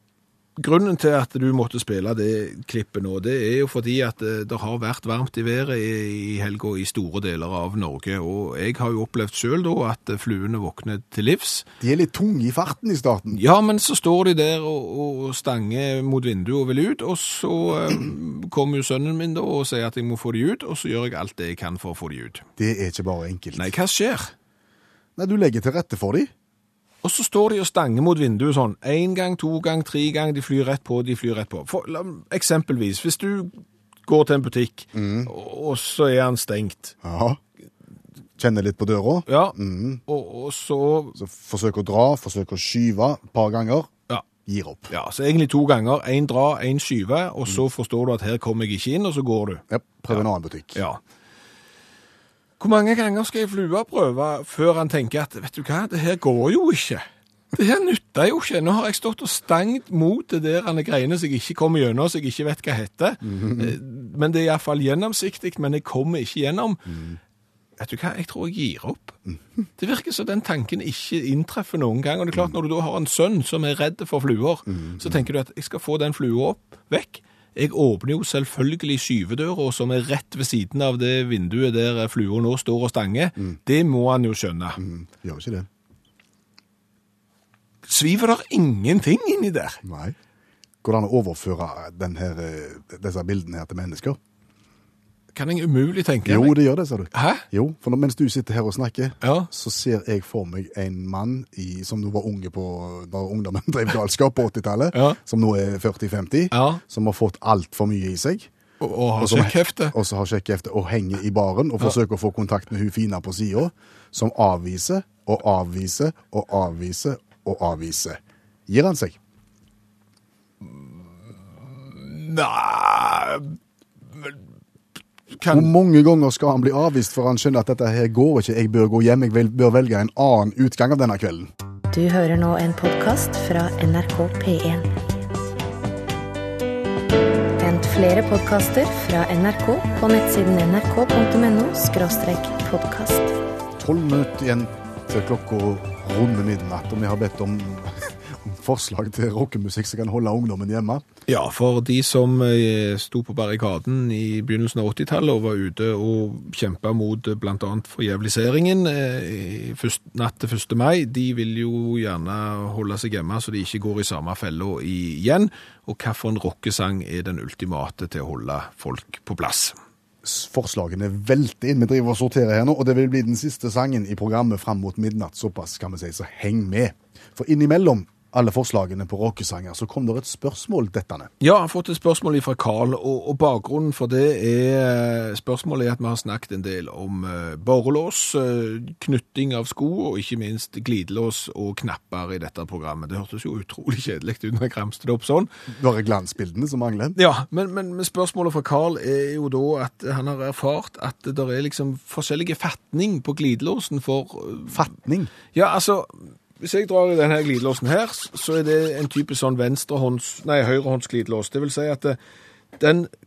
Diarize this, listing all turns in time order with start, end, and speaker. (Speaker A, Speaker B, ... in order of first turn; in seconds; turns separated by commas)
Speaker A: 0.6-11.7, Speaker B: 11.8-13.4, Speaker A: 13.3-22.4, Speaker B: 22.6-23.7, Speaker A: 23.6-24.3, Speaker B: 25.2-26.3, Speaker A: 27.0-33.5, Speaker A: 34.0-36.9, Speaker B: 35.0-35.3, Speaker B: 37.0-37.4, Speaker B: 38.4-40.0, Speaker A: 39.3-41.2, Speaker B: 41.2-43.9, Speaker B: 44.5-44.9, Speaker A: 44.9-51.0, Speaker B: 49.7-50.8, Speaker A: 52.6-67.0, Speaker B: 63.2-63.8, Speaker B: 66.9-67.2, Speaker A: 67.8-69.2, Speaker B: 69.3-69.7, Speaker A: 69.8-84.8, Speaker B: 72.3-72.6, Speaker B: 74.7-75.3, Speaker B: 84.8-85.7, Speaker A: 87.9-89.8, Speaker B: 89.8-90.2, Speaker B: 90.8-94.2, Speaker A: 95.3-96.6, Speaker B: 96.2-108.5, Speaker A: 97.1-97.5, Speaker A: 99.2-99.5, Speaker A: 106.5-106.8, Speaker A: 108.8-110.0, Speaker B: 109.2-119.2, Speaker A: 121.8-123.5, Speaker A: 125.3-125.7, Speaker B: 125.5-131.5, Speaker C: 131.9-134.9, Speaker C: 137.6-143.3, Speaker B: 143.8-151.0, Speaker A: 151.3-169.8, Speaker B: 170.2-181.3, Speaker A: 181.4-195.5, Speaker B: 195.7-197.2, Speaker A: 197.2-204.8, Speaker B: 204.7-205.3, Speaker A: 205.5-212.2, Speaker A: 212.8-213.1